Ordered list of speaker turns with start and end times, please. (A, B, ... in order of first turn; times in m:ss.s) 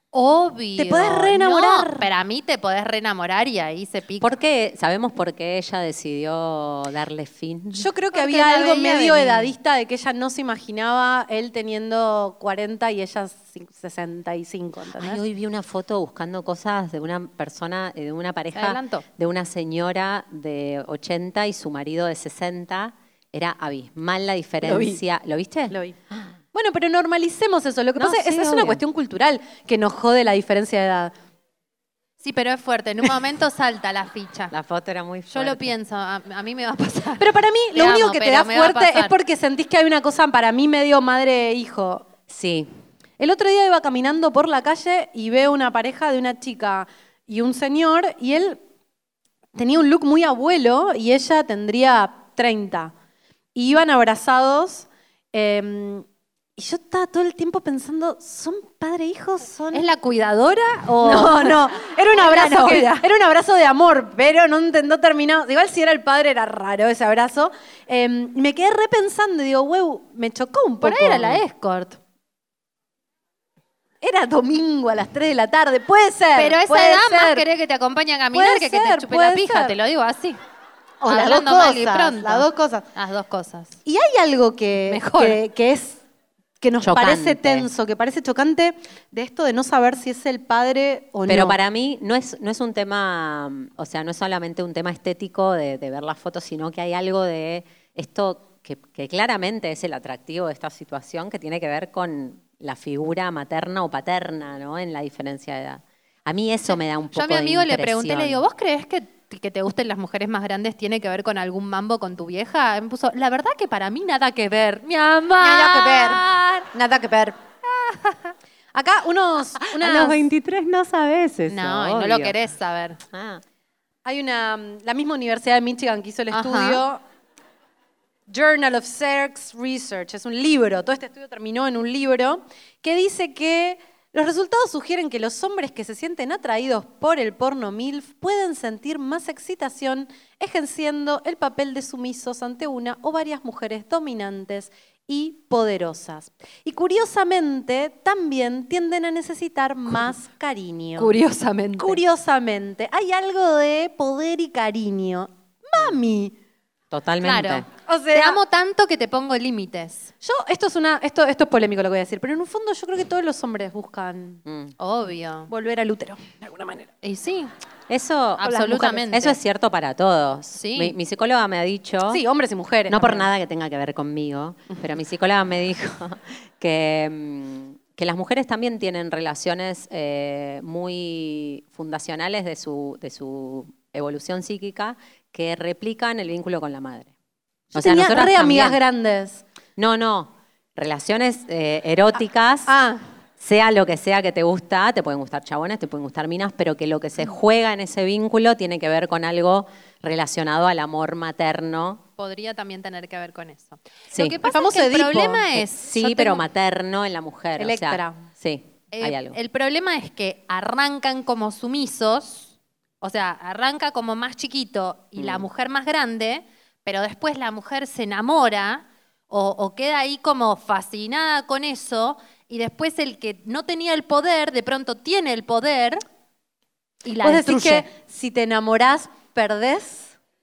0:00.1-0:04.3 A
0:00.8-0:02.0 B
0:04.2-0:07.9 C
0:07.8-0:15.2 B
0:08.1-0:09.5 A
0:15.0-0:26.3 C
0:18.5-0:19.0 A
0:24.6-0:25.0 B
0:26.5-0:31.1 B
0:28.0-0:28.8 C
0:32.2-0:34.5 A
0:34.5-0:35.7 C
0:35.3-0:39.1 A
0:37.2-0:42.1 B
0:42.3-0:42.7 C
0:43.2-0:48.6 B
0:49.5-0:52.9 B
0:53.5-0:56.0 B
0:56.6-0:59.8 B
0:59.7-1:03.0 A
1:00.9-1:11.4 B
1:10.8-1:12.0 A
1:14.0-1:17.4 B
1:16.4-1:20.4 A
1:18.3-1:19.7 B
1:21.0-1:22.8 B
1:21.0-1:23.8 A
1:23.8-1:26.0 B
1:24.9-1:25.4 A
1:26.6-1:31.6 B
1:26.8-1:27.7 C
1:31.3-1:48.4 C
1:46.7-1:56.6 A
1:55.4-1:57.4 B
1:57.9-1:58.1 A
1:58.7-2:00.2 B
1:59.8-2:02.5 C
2:01.5-2:03.0 A
2:03.1-2:03.4 C
2:04.0-2:07.0 B
2:06.3-2:06.8 A
2:08.3-2:31.1 B
2:31.0-2:32.0 A
2:31.8-2:36.3 B
2:36.9-2:37.7 C
2:37.2-2:40.1 A
2:37.8-2:38.4 B
2:40.2-2:44.4 B
2:44.4-2:44.7 C
2:44.8-2:45.5 A
2:45.5-2:46.9 B
2:47.0-2:47.5 A
2:47.9-2:52.2 C
2:48.4-2:49.4 A
2:50.5-2:50.9 A
2:52.1-2:53.3 B
2:52.9-3:07.1 C
3:07.7-3:08.8 C
3:07.7-3:09.4 B
3:09.8-3:12.7 C
3:12.7-3:13.0 B
3:13.4-3:22.0 C
3:22.2-3:26.4 A
3:24.1-3:24.4 C
3:24.4-3:25.5 B
3:25.5-3:29.4 C
3:27.6-3:28.2 B
3:28.9-3:46.0 A
3:35.2-3:35.5 C
3:47.0-3:47.9 A
3:47.2-3:50.1 B